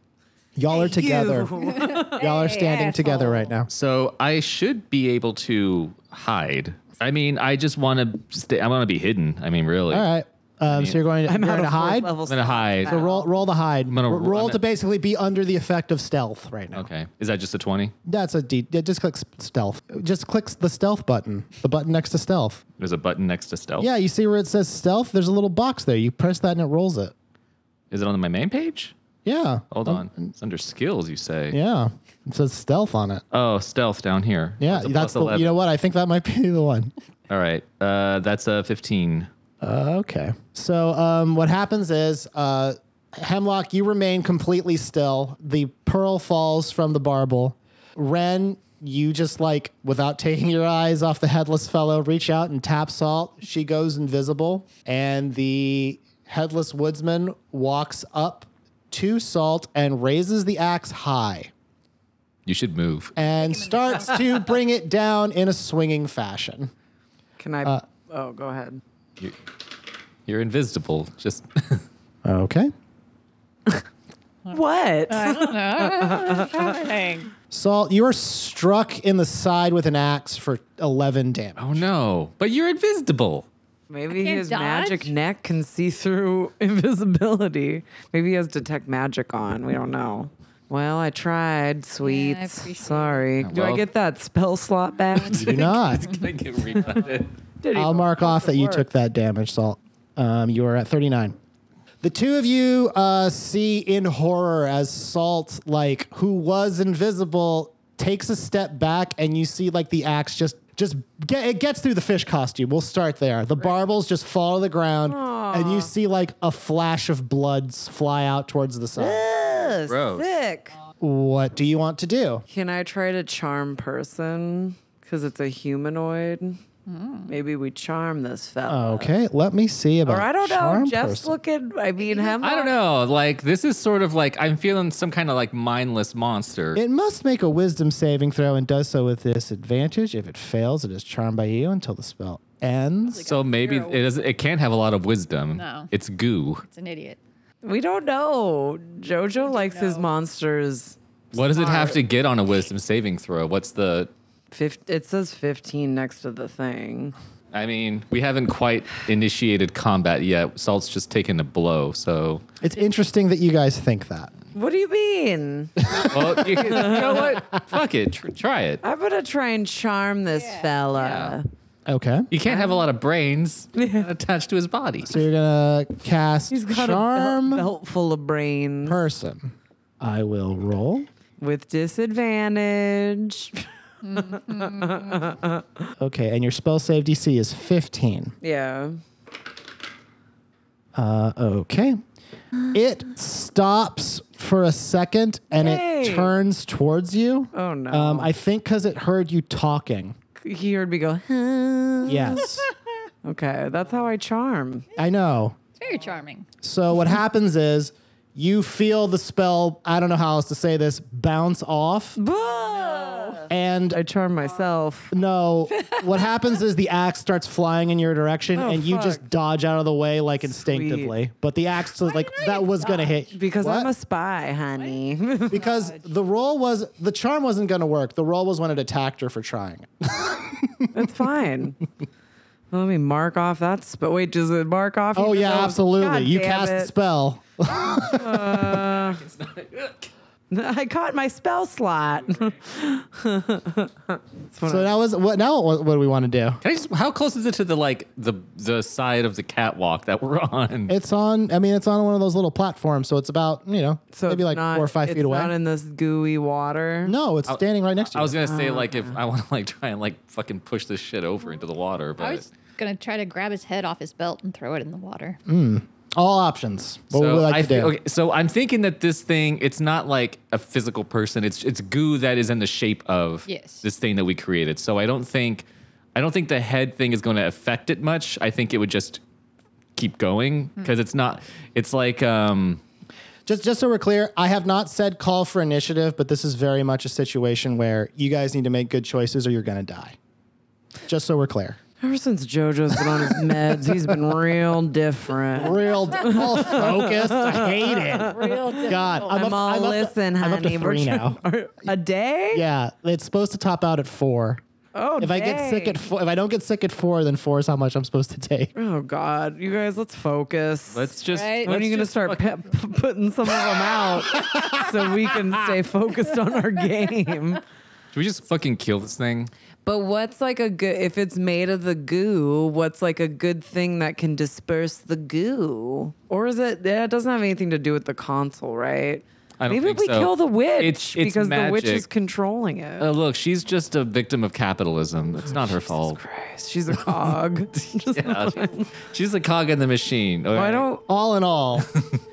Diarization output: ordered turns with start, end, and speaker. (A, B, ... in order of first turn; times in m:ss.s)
0:00.6-0:01.5 A
0:00.7-0:02.3 B
0:01.6-0:03.5 C
0:02.1-0:03.7 A
0:03.7-0:10.1 D
0:09.9-0:12.1 A
0:10.7-0:11.0 D
0:11.2-0:13.3 B
0:12.3-0:13.0 D
0:12.9-0:16.9 A
0:13.9-0:14.6 D
0:16.7-0:17.9 D
0:18.0-0:22.6 A
0:22.8-0:23.9 D
0:23.8-0:27.1 A
0:27.9-0:28.9 D
0:29.2-0:30.3 A
0:29.7-0:31.6 D
0:31.5-0:33.2 A
0:33.3-0:35.5 D
0:34.6-0:36.9 A
0:37.3-0:39.3 D
0:39.6-1:01.5 A
1:02.5-1:03.1 D
1:03.2-1:06.7 A
1:03.2-1:04.5 C
1:07.4-1:08.8 B
1:10.3-1:11.8 D
1:12.2-1:12.7 A
1:14.5-1:16.8 B
1:15.1-1:17.3 C
1:17.5-1:21.8 A
1:21.6-1:23.5 D
1:23.9-1:35.9 B
1:24.1-1:25.1 C
1:32.0-1:33.3 C
1:33.4-1:33.9 D
1:35.2-1:37.3 D
1:35.3-1:36.1 A
1:37.6-1:38.9 B
1:37.7-1:41.4 A
1:42.0-1:59.2 A
1:55.1-1:55.9 B
1:59.0-2:00.8 B
1:59.9-2:00.3 D
2:01.0-2:02.4 A
2:02.5-2:06.6 B
2:06.9-2:07.3 C
2:07.3-2:09.1 B
2:08.7-2:11.3 A
2:10.0-2:12.7 B
2:12.0-2:12.5 C
2:12.4-2:16.8 D
2:16.8-2:23.3 A
2:23.1-2:24.1 C
2:23.2-2:26.6 D
2:25.6-2:25.9 C
2:26.7-2:27.2 C
2:27.6-2:32.0 B
2:29.4-2:30.1 C
2:31.3-2:34.1 D
2:34.5-2:37.2 B
2:37.5-2:42.4 D
2:42.6-2:44.3 A
2:44.5-2:47.3 B
2:45.8-2:47.1 A
2:46.0-2:48.8 D
2:48.8-2:51.5 B
2:50.3-2:50.7 C
2:50.9-2:51.4 D
2:51.9-2:52.3 A
2:52.3-2:55.2 D
2:52.5-2:52.8 B
2:53.8-2:54.1 B
2:55.0-2:57.7 A
2:56.5-2:59.0 B
2:58.9-3:01.1 A
3:01.4-3:05.9 B
3:04.0-3:05.2 C
3:06.0-3:08.3 A
3:08.4-3:09.0 B
3:11.0-3:12.0 A
3:12.7-3:20.2 A
3:15.5-3:16.3 B
3:17.5-3:18.3 B
3:20.4-3:22.5 B
3:22.1-3:22.7 A
3:23.2-3:24.8 B
3:25.0-3:25.6 A
3:25.8-3:26.5 C
3:26.6-3:32.2 A
3:32.2-3:35.1 B
3:32.8-3:33.4 C
3:33.5-3:34.0 A
3:35.1-3:43.9 A
3:35.8-3:36.1 C
3:38.6-3:39.2 B
3:40.5-3:41.1 B
3:42.0-3:43.2 C
3:43.3-3:45.7 B
3:45.5-3:51.1 A
3:45.5-3:46.0 C
3:50.9-3:51.8 B
3:52.7-3:56.9 B
3:55.2-3:58.8 A
3:58.0-3:59.2 B
3:58.8-4:00.1 D
4:00.5-4:04.9 B
4:04.7-4:06.6 A
4:06.6-4:10.9 D
4:10.9-4:15.5 A
4:14.1-4:17.2 B
4:17.0-4:18.4 A
4:17.5-4:22.5 D
4:18.4-4:19.2 B
4:22.2-4:25.4 C
4:25.5-4:28.0 A
4:27.1-4:39.2 D
4:33.5-4:33.8 C
4:40.0-4:42.8 D
4:43.5-4:50.2 A
4:51.1-4:51.8 A
4:52.0-5:02.6 B
4:53.1-4:54.2 A
4:55.6-5:01.4 A
4:55.9-4:57.0 C
4:58.1-4:59.4 C
5:02.5-5:04.6 A
5:05.0-5:06.0 B
5:05.2-5:08.7 A
5:08.8-5:17.6 B
5:10.9-5:12.5 D
5:11.3-5:11.7 C
5:18.1-5:19.5 D
5:19.8-5:33.1 B
5:29.6-5:32.1 D
5:33.0-5:36.2 D
5:35.5-5:38.9 B
5:37.9-5:40.9 D
5:40.6-5:41.0 B
5:41.1-5:41.9 A
5:41.8-5:42.2 D